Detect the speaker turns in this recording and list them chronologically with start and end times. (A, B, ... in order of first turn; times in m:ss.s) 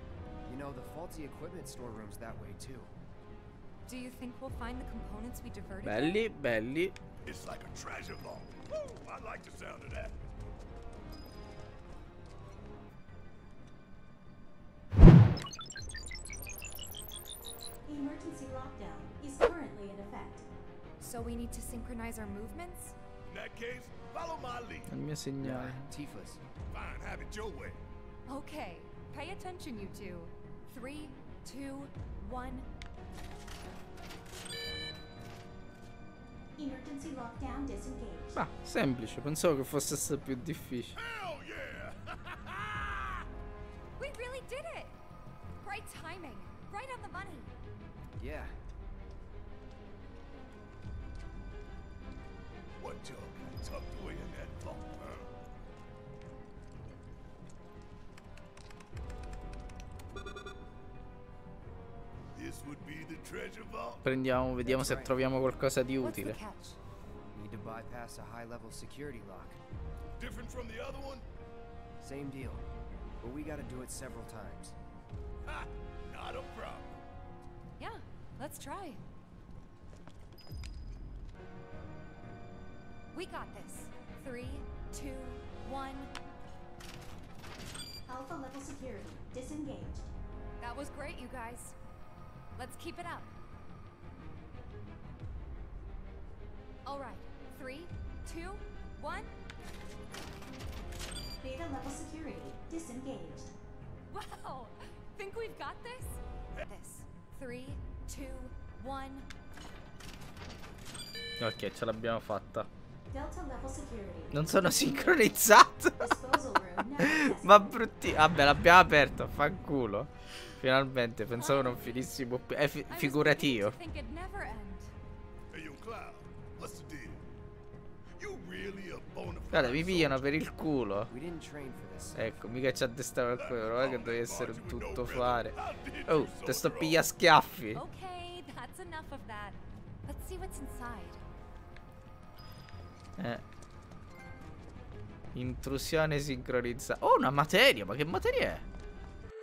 0:00.4-0:02.9 A
0:03.8-0:06.2 B
0:05.8-0:07.0 C
0:07.2-0:10.1 D
0:17.8-0:20.4 E
0:21.0-0:23.0 B
0:23.3-0:24.9 D
0:24.9-0:25.8 C
0:25.4-0:26.4 A
0:26.7-0:27.8 D
0:28.3-0:32.7 B
0:36.6-0:38.4 E
0:38.3-0:41.0 C
0:41.0-0:43.2 D
0:44.0-0:44.9 B
0:45.6-0:47.5 B
0:48.2-0:48.5 A
0:52.8-0:55.3 D
1:02.3-1:04.0 D
1:04.0-1:06.4 C
1:04.6-1:05.2 A
1:06.0-1:06.8 B
1:07.3-1:09.6 A
1:10.2-1:11.2 D
1:12.0-1:12.7 A
1:13.2-1:14.8 A
1:15.5-1:17.0 D
1:17.8-1:19.0 B
1:23.1-1:26.1 B
1:28.1-1:30.1 E
1:30.6-1:31.8 B
1:32.6-1:33.3 B
1:36.8-1:39.3 B
1:41.4-1:43.5 E
1:44.1-1:49.3 B
1:51.4-1:52.7 C
1:53.1-1:54.7 E
1:54.3-1:56.1 C
1:56.0-1:57.8 E
1:57.0-2:03.8 C
2:01.4-2:02.0 B
2:02.9-2:04.9 B
2:05.5-2:07.2 D
2:08.2-2:10.5 D
2:09.5-2:11.1 C
2:11.1-2:12.3 A
2:12.1-2:17.8 C
2:13.3-2:17.1 D
2:17.7-2:21.2 B
2:23.2-2:23.4 C
2:25.3-2:28.6 C